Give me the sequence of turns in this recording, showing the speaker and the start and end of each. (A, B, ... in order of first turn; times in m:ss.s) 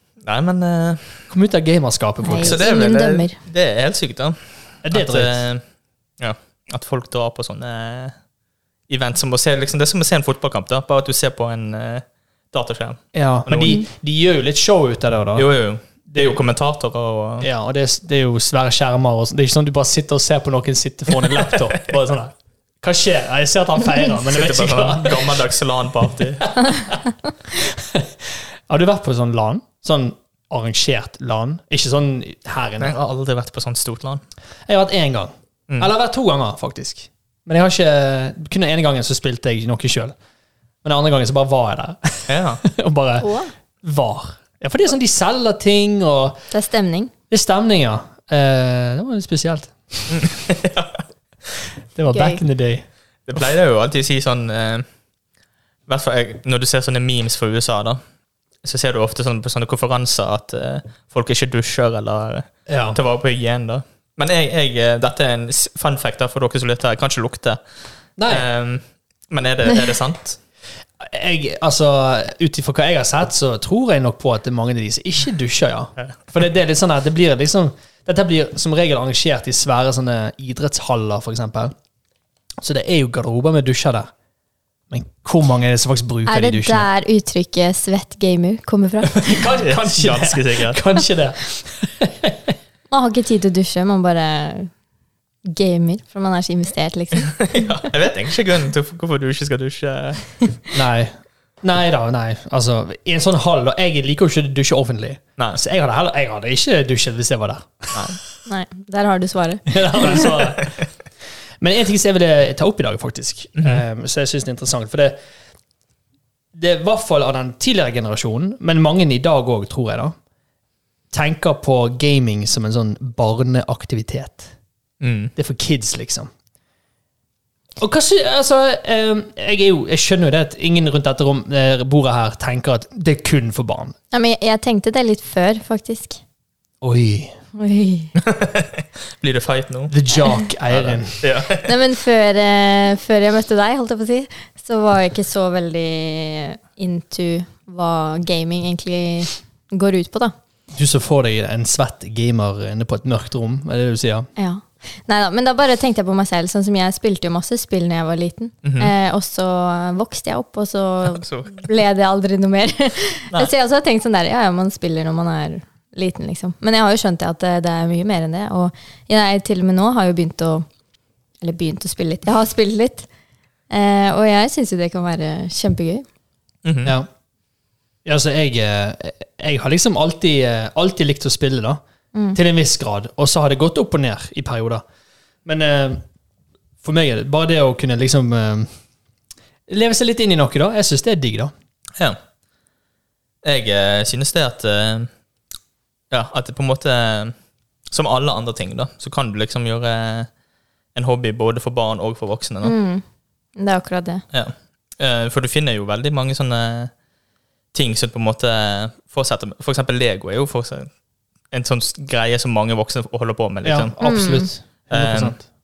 0:00.2-0:01.3 A
0:01.3-0:02.6 B
0:02.2-0:03.4 C
0:02.4-0:05.6 A
0:04.8-0:05.5 B
0:06.2-0:08.2 A
0:08.9-0:13.8 A
0:13.1-0:15.5 B
0:15.4-0:17.5 A
0:16.1-0:16.4 B
0:17.4-0:25.4 B
0:24.3-0:26.5 A
0:26.4-0:33.0 B
0:32.8-0:34.2 A
0:34.7-0:40.2 B
0:40.8-0:46.4 B
0:42.3-0:42.6 A
0:43.2-0:43.5 C
0:46.5-0:47.1 C
0:47.3-0:50.3 B
0:50.1-0:51.0 A
0:52.0-0:52.8 B
0:52.1-0:52.4 C
0:53.3-0:54.8 A
0:55.9-0:58.0 A
0:58.6-1:07.6 A
1:02.7-1:03.0 B
1:08.2-1:08.5 B
1:08.3-1:10.4 A
1:11.0-1:21.7 B
1:22.6-1:24.1 B
1:24.9-1:26.9 B
1:26.3-1:29.5 C
1:29.0-1:32.6 B
1:29.6-1:30.8 A
1:32.9-1:34.7 C
1:35.4-1:37.9 C
1:37.2-1:40.4 A
1:40.7-1:48.1 B
1:47.9-1:48.2 A
1:48.5-1:50.3 C
1:49.7-1:50.8 B
1:50.3-1:50.7 A
1:51.6-1:55.2 B
1:53.6-1:53.8 A
1:56.5-2:00.2 B
2:01.1-2:04.5 B
2:05.0-2:05.3 A
2:05.4-2:06.3 B
2:07.8-2:13.9 B
2:14.1-2:16.2 C
2:16.8-2:17.3 B
2:17.6-2:18.1 C
2:18.2-2:20.0 A
2:19.9-2:21.2 B
2:20.7-2:21.7 A
2:21.6-2:30.3 C
2:30.7-2:34.3 B
2:34.4-2:50.7 C
2:38.6-2:38.9 A
2:41.1-2:41.5 A
2:51.4-2:53.1 C
2:53.7-2:56.1 C
2:56.6-2:57.0 A
2:58.0-3:01.8 B
3:02.4-3:04.8 B
3:05.4-3:06.0 B
3:06.8-3:08.7 B
3:09.7-3:11.5 B
3:13.4-3:15.1 A
3:16.1-3:17.3 A
3:17.9-3:20.3 A
3:21.0-3:22.7 A
3:22.6-3:23.0 C
3:23.6-3:24.2 C
3:24.3-3:26.9 A
3:27.7-3:30.9 A
3:31.5-3:34.0 A
3:33.6-3:35.4 B
3:34.0-3:34.5 C
3:34.9-3:35.4 A